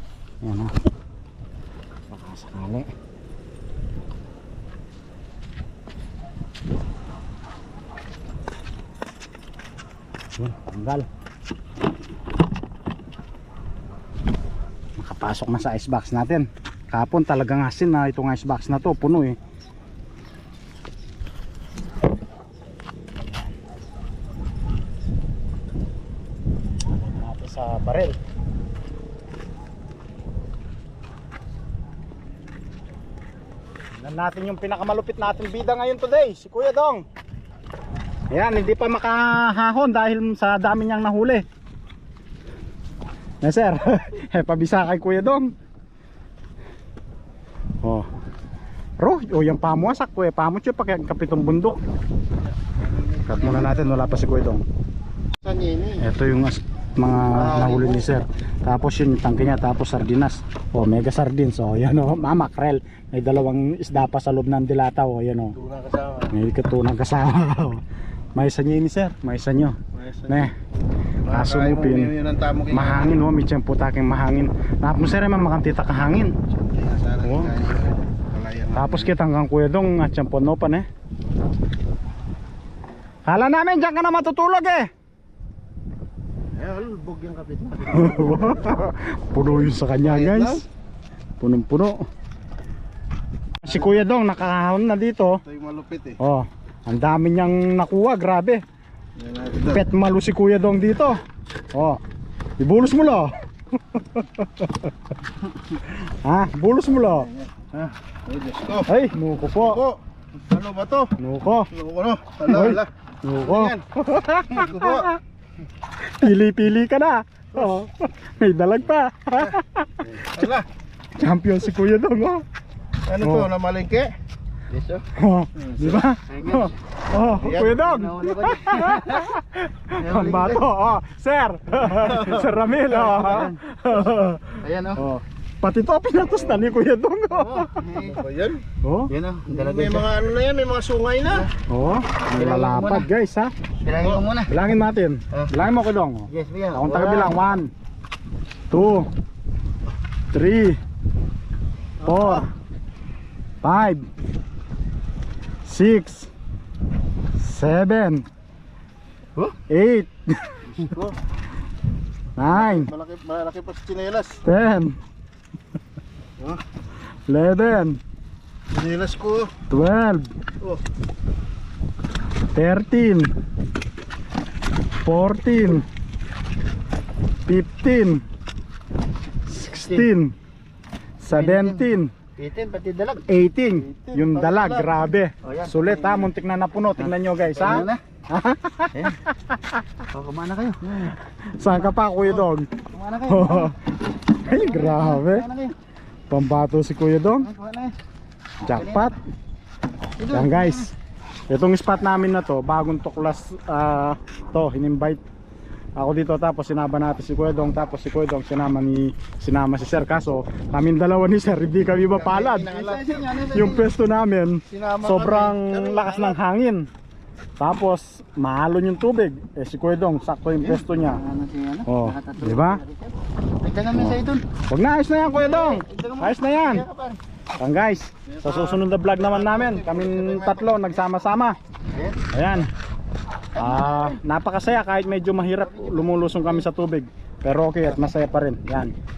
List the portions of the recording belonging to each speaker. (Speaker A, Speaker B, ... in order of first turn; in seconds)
Speaker A: 0.4-0.7, 2.1-2.9, 10.4-11.1, 15.0-19.4, 26.9-28.2, 34.0-37.0, 38.3-41.4, 43.4-45.5, 47.8-48.1, 49.0-51.8, 53.2-54.6, 56.0-65.6, 66.3-67.8, 68.3-70.5, 71.2-72.2, 72.7-76.3, 77.2-77.5, 78.7-80.8, 83.2-84.9, 87.8-90.6, 91.4-92.1, 93.6-95.4, 96.2-98.6, 99.6-101.2, 101.7-102.0, 102.6-103.4, 103.9-104.9, 105.7-107.3, 108.8-109.8, 111.2-111.7, 112.4-115.2, 116.0-120.3, 121.2-122.4, 123.2-123.5, 125.1-137.8, 138.8-139.1, 141.6-143.5, 144.4-147.7, 148.7-149.1, 150.3-150.8, 152.0-152.5, 153.6-154.1, 155.6-156.3, 157.4-158.2, 159.7-160.9, 162.4-162.9, 164.4-165.0, 167.3-168.0, 169.7-170.3, 172.5-173.3, 175.0-175.9, 177.4-178.2, 179.4-180.3, 181.2-182.1, 183.3-189.1, 191.5-192.7, 193.3-193.8, 194.4-195.5, 196.3-197.5, 198.6-199.1, 200.3-200.9, 201.5-205.2, 205.9-216.9, 217.6-221.2, 221.8-222.8, 223.9-226.8, 227.6-231.6, 232.3-232.7, 233.5-238.9
Speaker B: 52.7-54.0, 55.4-56.0, 65.6-66.3, 70.0-70.5, 71.2-73.1, 76.6-79.1, 86.5-88.4, 90.0-90.6, 95.5-96.2, 99.2-99.8, 107.5-108.9, 109.5-111.2, 111.7-112.9, 113.4-115.1, 120.1-120.7, 123.0-124.1, 125.7-126.0, 127.4-127.8, 131.9-132.4, 137.9-138.6, 139.5-141.5, 152.1-152.4, 160.8-161.2, 162.5-164.4, 168.7-169.5, 183.8-185.1, 212.1-213.1, 214.7-216.4, 228.3-230.9
Speaker C: 124.7-125.0, 126.3-126.7, 127.6-129.4, 129.9-130.7, 132.9-133.6, 134.6-135.0, 137.3-138.2, 139.1-140.1, 142.3-143.1, 143.8-144.5, 146.3-147.5, 179.7-180.1, 181.3-183.2, 185.4-186.3, 187.0-188.0, 188.9-189.2, 190.1-191.1, 191.6-193.7, 194.3-195.7, 197.4-197.9, 198.7-199.1, 200.2-200.9, 212.7-213.8, 220.6-224.4, 225.4-227.2, 231.9-232.2, 233.5-234.2, 235.6-236.5